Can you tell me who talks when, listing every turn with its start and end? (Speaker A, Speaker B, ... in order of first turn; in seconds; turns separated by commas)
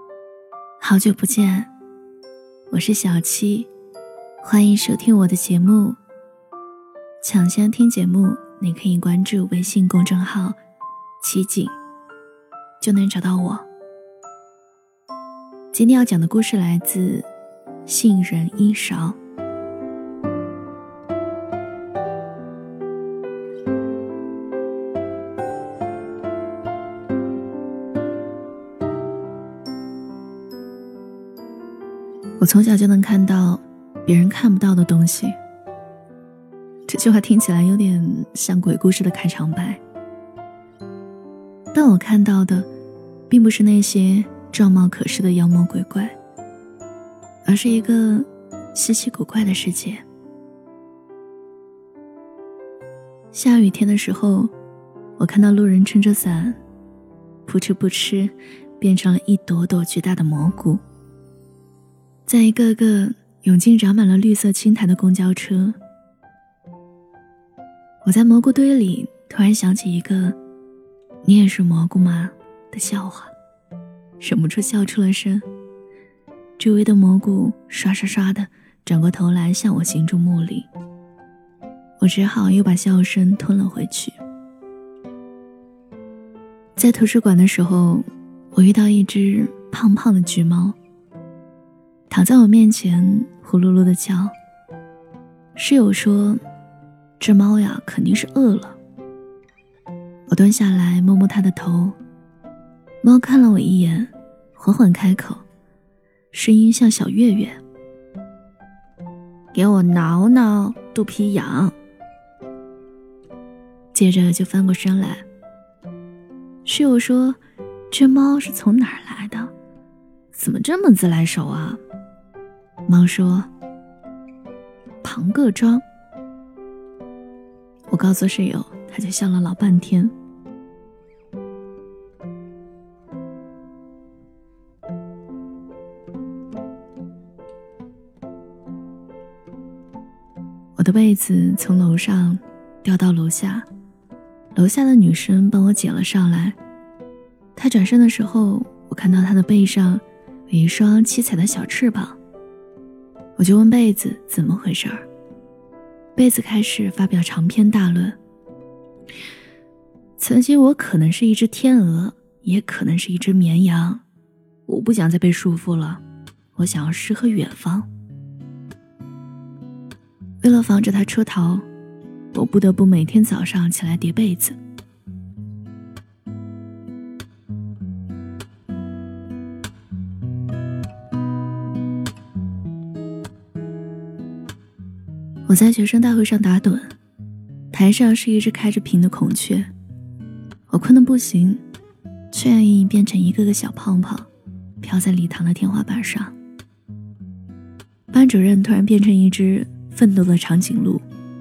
Speaker A: 0.8-1.7, Speaker A: 2.7-3.7, Speaker A: 4.4-6.0, Speaker A: 7.2-10.6, Speaker A: 11.2-11.8, Speaker A: 12.8-13.7, Speaker A: 15.7-17.3, Speaker A: 17.9-19.2, Speaker A: 32.4-35.4, Speaker A: 36.9-39.8, Speaker A: 41.7-42.7, Speaker A: 43.3-46.1, Speaker A: 47.4-50.0, Speaker A: 53.3-54.5, Speaker A: 55.2-56.6, Speaker A: 57.5-60.8, Speaker A: 62.3-65.8, Speaker A: 68.0-70.3, Speaker A: 71.2-73.3, Speaker A: 74.2-75.4, Speaker A: 76.6-80.7, Speaker A: 82.0-84.2, Speaker A: 86.8-90.8, Speaker A: 92.1-94.3, Speaker A: 95.5-96.4, Speaker A: 97.2-98.8, Speaker A: 100.3-102.0, Speaker A: 103.0-105.4, Speaker A: 106.3-107.6, Speaker A: 109.5-111.7, Speaker A: 113.9-115.2, Speaker A: 116.6-117.4, Speaker A: 117.9-119.5, Speaker A: 120.3-121.8, Speaker A: 122.8-123.5, Speaker A: 125.0-125.8, Speaker A: 127.9-130.1, Speaker A: 140.8-143.7, Speaker A: 144.5-146.6, Speaker A: 147.6-152.2, Speaker A: 153.4-155.1, Speaker A: 156.2-158.2, Speaker A: 160.2-164.0, Speaker A: 164.7-166.0, Speaker A: 166.5-167.9, Speaker A: 170.4-171.7, Speaker A: 172.3-174.6, Speaker A: 185.5-186.9, Speaker A: 187.7-189.7, Speaker A: 190.7-191.6, Speaker A: 192.3-194.3, Speaker A: 194.8-196.3, Speaker A: 198.1-201.0